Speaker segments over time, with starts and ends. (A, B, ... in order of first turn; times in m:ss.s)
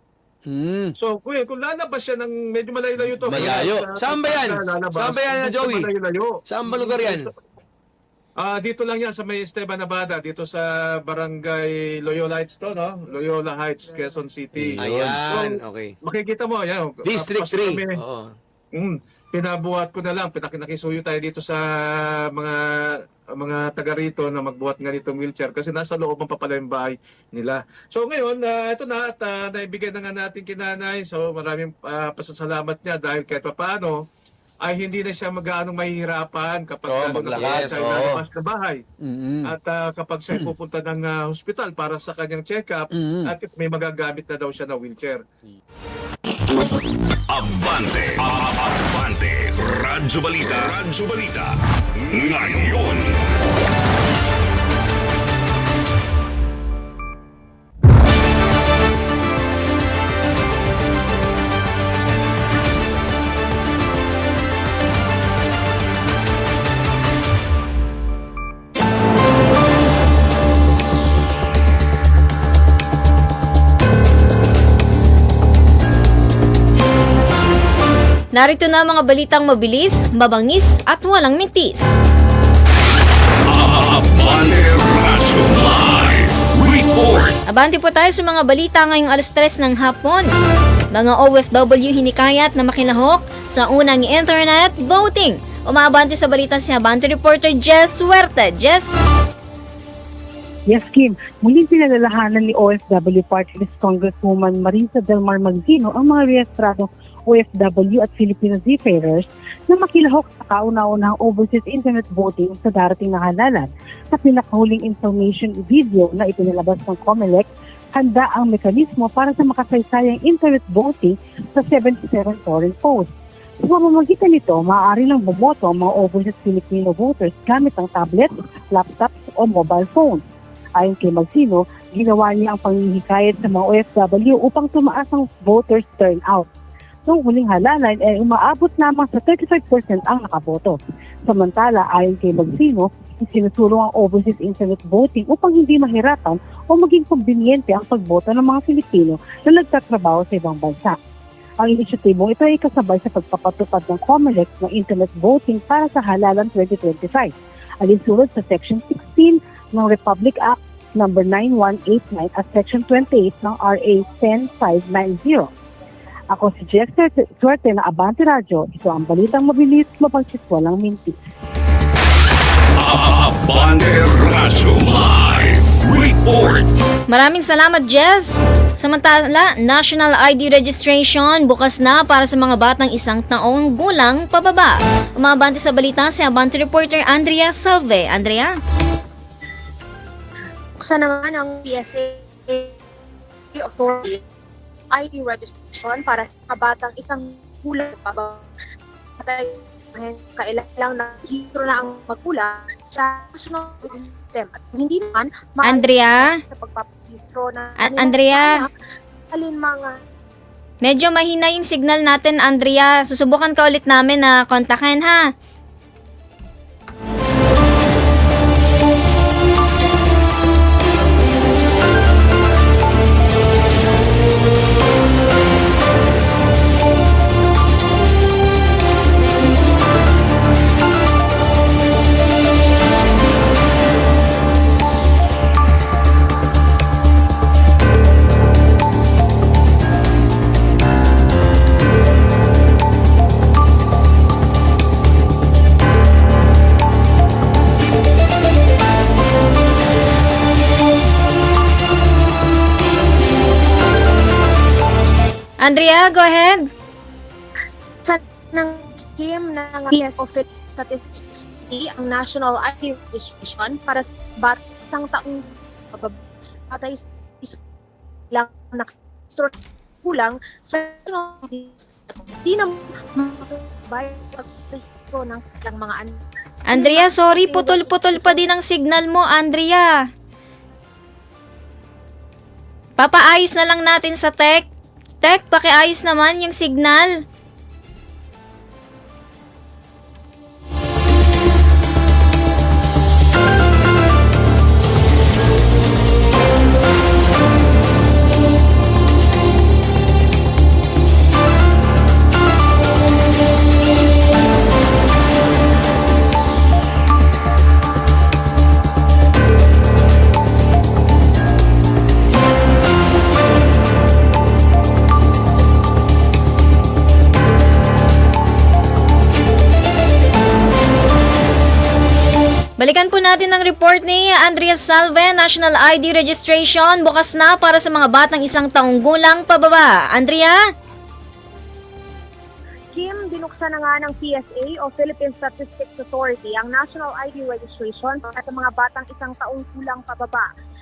0:00.5-0:00.9 A
0:01.0-0:07.3 B
0:03.2-0:05.9 A
0:06.5-0:07.3 A
0:08.4-0:18.0 B
0:14.6-0:16.0 A
0:17.0-0:18.3 A
0:18.8-0:21.6 B
0:23.4-0:34.0 B
0:34.6-0:38.8 B
0:36.9-0:38.2 A
0:39.0-0:39.5 A
0:39.4-0:45.2 B
0:42.9-0:43.3 A
0:47.3-0:53.2 C
1:18.3-1:21.9 D
1:23.5-1:27.4 C
1:27.5-1:30.3 D
1:30.9-1:39.0 D
1:40.7-2:03.1 E
2:03.6-2:10.2 E
2:10.8-2:16.5 E
2:17.1-2:31.0 E
2:31.6-2:45.5 E
2:46.3-2:51.2 E
2:52.8-2:56.7 C
2:57.1-3:08.6 D
3:10.8-3:12.8 F
3:13.5-3:14.2 F
3:14.9-3:18.5 F
3:19.2-3:30.0 F
3:25.6-3:26.3 D
3:27.8-3:28.6 D
3:30.8-3:35.2 D
4:15.6-4:16.6 D
4:18.0-4:27.6 F
4:28.3-4:38.5 F
4:36.7-4:40.0 D
4:43.0-4:44.7 D
4:45.2-4:47.1 D
5:22.8-5:30.6 D
5:32.9-5:40.5 F